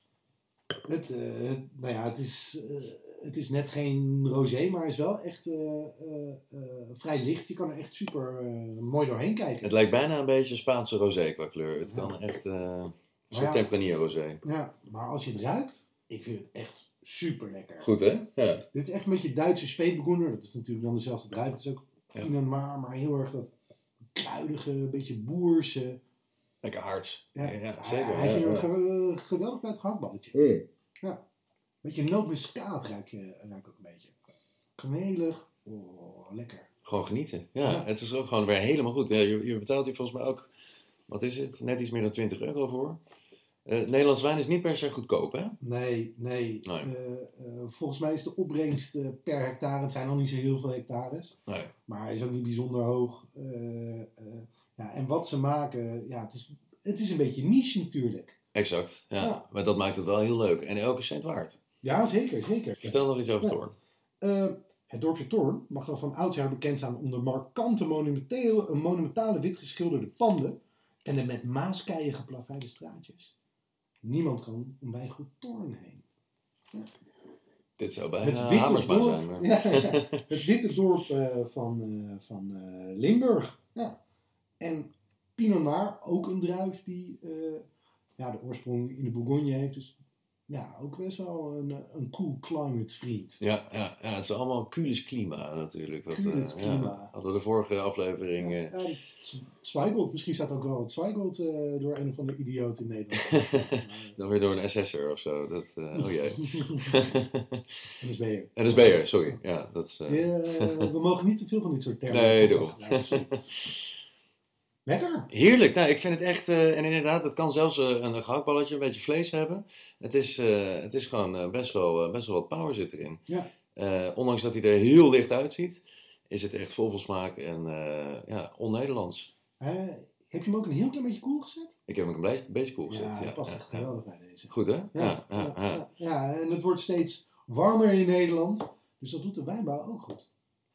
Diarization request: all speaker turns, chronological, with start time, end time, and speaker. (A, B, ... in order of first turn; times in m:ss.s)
0:00.8-0:09.8 A
0:09.6-0:14.4 B
0:11.9-0:12.1 A
0:13.3-0:13.7 A
0:14.4-0:17.9 A
0:17.8-0:18.6 B
0:18.7-0:23.5 A
0:24.1-0:26.0 A
0:26.6-0:28.7 B
0:27.4-0:30.4 A
0:30.3-0:30.6 B
0:31.8-0:34.1 A
0:34.8-0:36.7 A
0:36.8-0:40.5 B
0:37.6-0:37.9 A
0:41.1-0:43.0 B
0:43.6-0:45.6 B
0:45.6-0:51.3 A
0:46.6-0:46.9 B
0:51.5-0:51.7 B
0:51.9-0:58.4 A
0:58.5-1:01.6 B
1:01.8-1:03.6 A
1:02.8-1:03.7 B
1:04.2-1:13.3 A
1:14.0-1:16.0 A
1:17.8-1:20.2 B
1:18.2-1:24.0 A
1:24.6-1:27.6 A
1:28.2-1:29.9 A
1:30.5-1:33.4 A
1:33.4-1:38.7 B
1:36.1-1:37.1 A
1:38.4-1:44.2 A
1:43.2-1:43.6 B
1:44.2-1:47.6 B
1:45.9-1:47.1 A
1:48.0-1:49.0 A
1:48.6-1:50.9 B
1:50.1-1:53.3 A
1:52.1-1:53.8 B
1:54.8-1:55.3 A
1:55.3-2:03.2 B
2:03.7-2:09.3 B
2:09.6-2:11.8 A
2:11.9-2:13.9 B
2:12.9-2:20.3 A
2:14.5-2:15.8 B